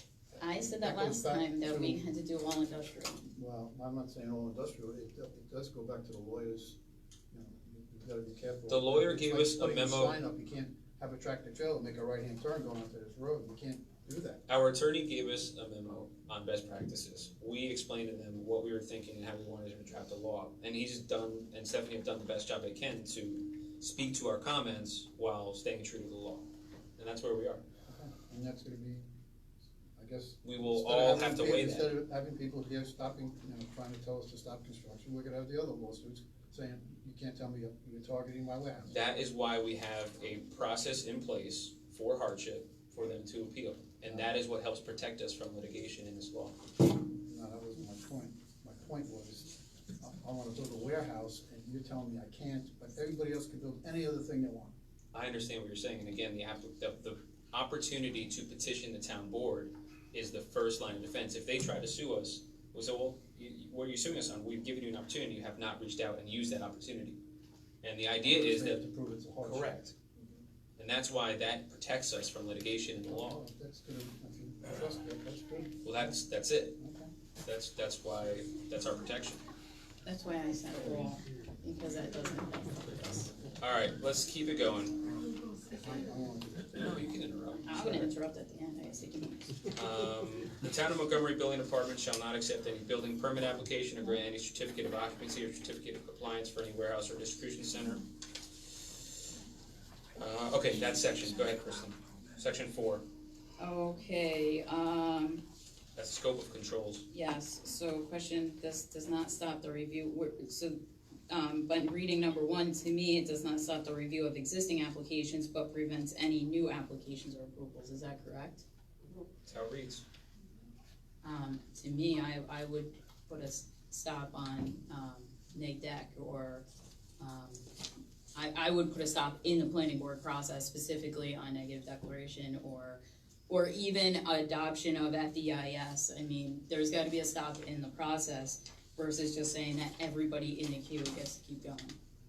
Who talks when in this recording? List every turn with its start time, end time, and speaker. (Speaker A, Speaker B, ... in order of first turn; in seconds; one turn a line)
Speaker A: 0.3-2.0
Speaker B: 0.4-3.3
Speaker A: 3.3-6.8
Speaker A: 7.3-14.4
Speaker C: 8.7-10.2
Speaker C: 14.5-27.6
Speaker A: 27.9-29.1
Speaker A: 30.0-39.0
Speaker C: 30.4-31.9
Speaker C: 38.9-46.5
Speaker A: 44.0-44.3
Speaker A: 47.2-54.7
Speaker C: 55.1-67.2
Speaker C: 67.8-68.8
Speaker A: 68.2-69.8
Speaker C: 69.4-69.9
Speaker C: 70.8-73.4
Speaker A: 73.0-76.1
Speaker C: 75.8-76.8
Speaker A: 76.8-77.1
Speaker C: 77.4-79.4
Speaker B: 80.0-83.3
Speaker C: 83.6-85.0
Speaker A: 85.7-86.9
Speaker C: 86.7-88.1
Speaker B: 87.7-89.6
Speaker C: 89.7-98.0
Speaker C: 100.1-103.0
Speaker B: 103.6-105.4
Speaker C: 106.0-107.1
Speaker B: 107.1-110.8
Speaker B: 111.3-118.7
Speaker C: 119.5-120.0
Speaker B: 121.2-126.6
Speaker B: 127.2-127.7
Speaker B: 128.3-141.9